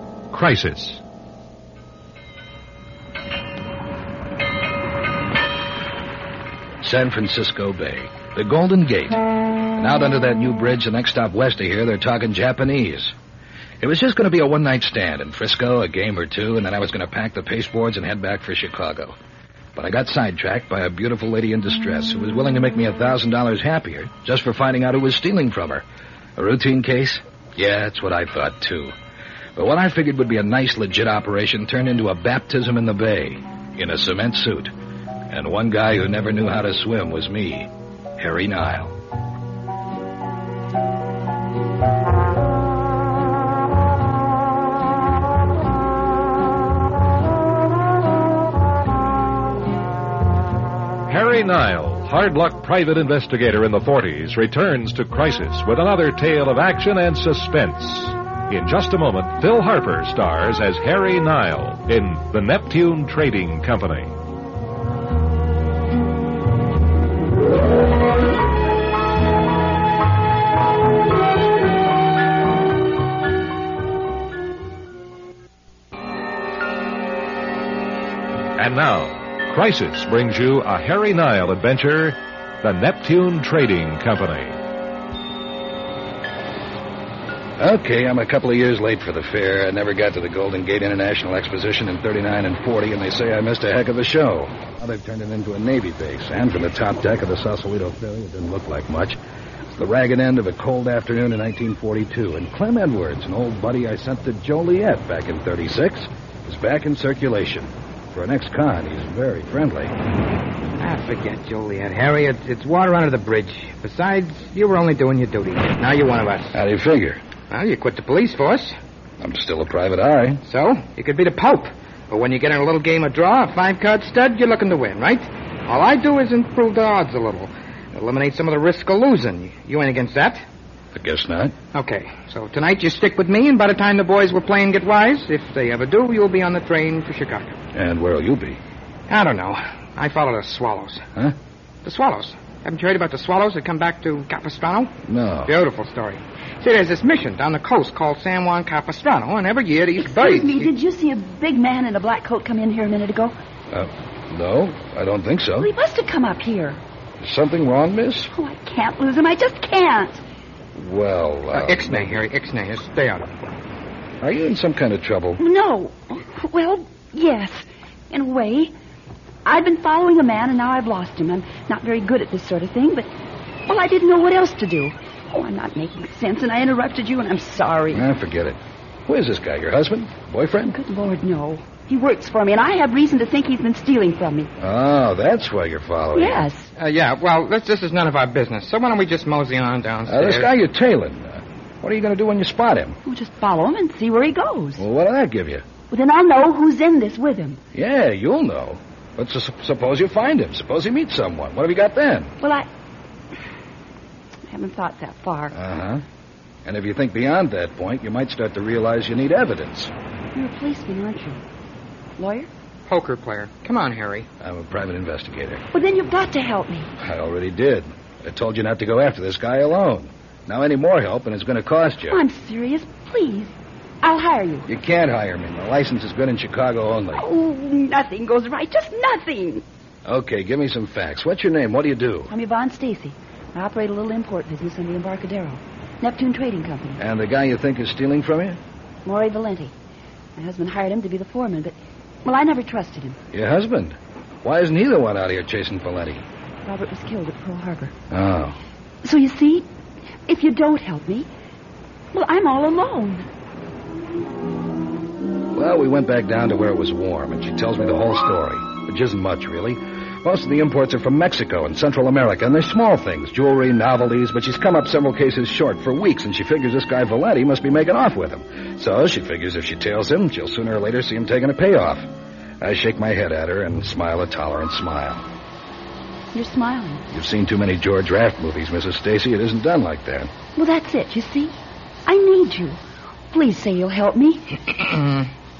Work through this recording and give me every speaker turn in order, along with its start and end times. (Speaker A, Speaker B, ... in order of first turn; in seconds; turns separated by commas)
Speaker A: 0.3-1.0, Speaker B: 6.8-9.2, Speaker B: 9.8-13.1, Speaker B: 13.8-19.1, Speaker B: 19.8-25.9, Speaker B: 26.4-28.9, Speaker B: 29.6-34.7, Speaker B: 35.3-39.0, Speaker A: 51.1-64.1, Speaker A: 78.6-84.6, Speaker B: 87.6-99.2, Speaker B: 99.7-109.9, Speaker C: 110.8-116.5, Speaker B: 116.5-117.2, Speaker C: 117.5-118.8, Speaker B: 119.2-120.4, Speaker C: 120.5-130.4, Speaker B: 130.9-131.6, Speaker C: 131.7-137.5, Speaker B: 137.7-138.6, Speaker C: 139.1-141.0, Speaker C: 141.8-144.9, Speaker B: 145.1-145.5, Speaker C: 145.5-150.7, Speaker D: 150.0-153.3, Speaker B: 153.7-155.7, Speaker D: 155.6-156.8, Speaker B: 157.2-158.3, Speaker D: 158.3-160.2, Speaker B: 160.8-162.2, Speaker C: 161.5-163.3, Speaker B: 164.2-165.4, Speaker D: 165.4-168.7, Speaker D: 169.4-173.1, Speaker D: 173.7-178.1, Speaker B: 177.9-180.8, Speaker D: 180.7-184.5, Speaker B: 184.6-186.5, Speaker D: 186.1-186.7, Speaker C: 186.8-190.5, Speaker B: 190.1-193.0, Speaker D: 193.1-194.8, Speaker B: 194.8-195.6, Speaker D: 195.9-197.6, Speaker B: 197.7-202.3, Speaker D: 202.4-202.7, Speaker D: 204.5-205.6, Speaker B: 205.5-206.0, Speaker B: 206.7-209.9, Speaker D: 210.3-211.4, Speaker D: 212.2-212.5, Speaker C: 212.9-214.3, Speaker B: 214.4-215.6, Speaker D: 215.7-216.9, Speaker B: 217.0-222.2, Speaker D: 222.1-224.7, Speaker B: 224.7-227.3, Speaker D: 227.1-229.6, Speaker B: 230.1-232.3, Speaker D: 232.3-237.0, Speaker B: 237.0-238.6, Speaker D: 239.1-239.7, Speaker D: 240.4-243.2, Speaker B: 243.3-246.2, Speaker D: 246.7-247.9, Speaker B: 248.1-248.6, Speaker D: 249.0-249.7, Speaker D: 250.3-251.3, Speaker D: 252.1-253.3, Speaker B: 255.5-272.1, Speaker B: 272.6-275.2, Speaker D: 276.3-277.0, Speaker B: 277.1-280.3, Speaker D: 280.6-281.6, Speaker D: 282.1-282.8, Speaker D: 283.3-284.6